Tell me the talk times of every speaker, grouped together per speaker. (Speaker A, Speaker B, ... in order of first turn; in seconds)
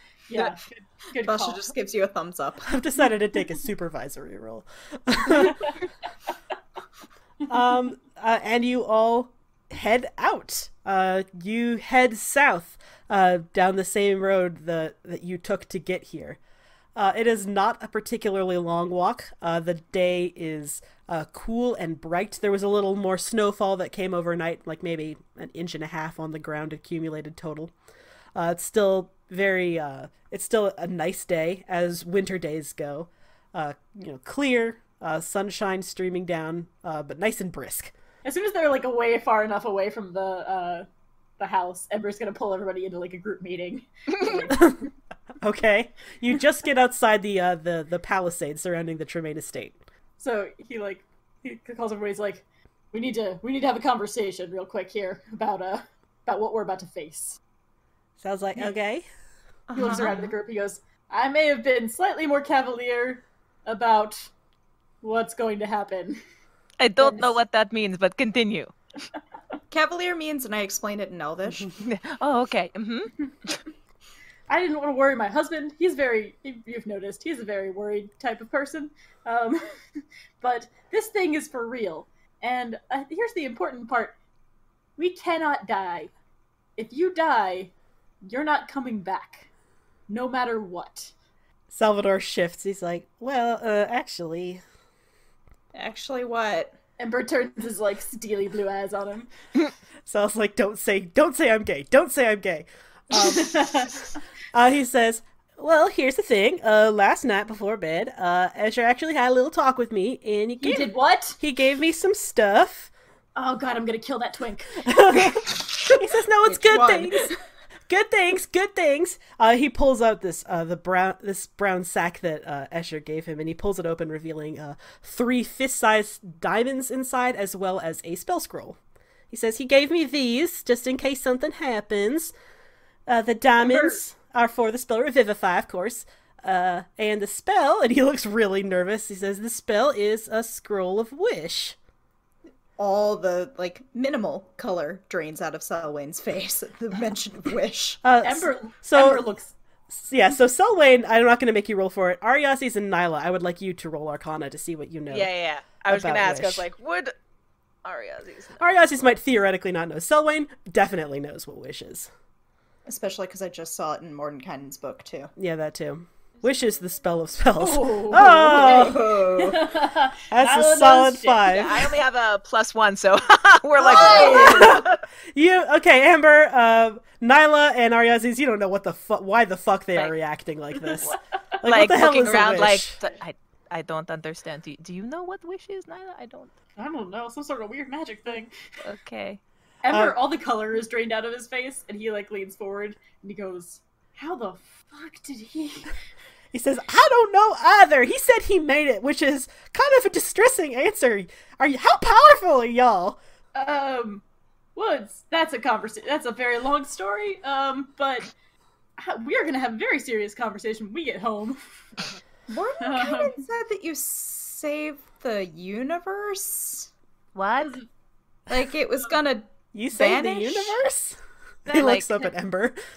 Speaker A: 0.3-1.7, 5.4-5.7, 38.2-40.9, 41.4-44.8, 50.2-57.4, 59.8-64.3, 65.0-66.2, 67.0-67.3, 74.5-84.2, 85.0-86.1, 86.8-87.7, 88.2-89.5, 90.1-91.1, 97.0-99.3, 103.2-104.1, 110.6-111.4, 113.4-115.4, 133.6-134.0, 148.2-149.5, 167.6-171.8, 173.9-174.7, 186.8-188.5, 189.8-196.0, 203.6-204.2, 204.8-208.3, 209.0-212.1, 212.8-213.4
Speaker B: 1.2-2.8, 59.7-60.4, 69.7-71.8, 95.7-96.8, 116.5-117.4, 142.8-148.0, 162.9-165.3, 168.5-169.7, 173.8-174.8, 212.5-216.9, 218.5-220.8
Speaker C: 2.7-5.7, 7.5-16.4, 16.9-27.7, 28.4-37.9, 44.5-44.9, 45.4-49.8, 58.2-59.1, 91.7-94.6, 100.1-103.9, 104.5-112.9, 114.8-117.3, 117.9-128.8, 129.3-132.3, 133.1-141.8, 148.0-149.2, 149.9-155.3, 155.9-156.7, 158.6-162.1, 165.4-169.1, 170.3-171.9, 174.3-183.0, 189.9-190.2, 196.5-203.2, 219.7-222.8
Speaker D: 66.8-68.7, 71.8-73.6, 155.1-157.2, 157.8-158.7, 171.5-175.0, 181.6-186.5, 188.8-189.4, 217.3-217.8, 221.7-222.3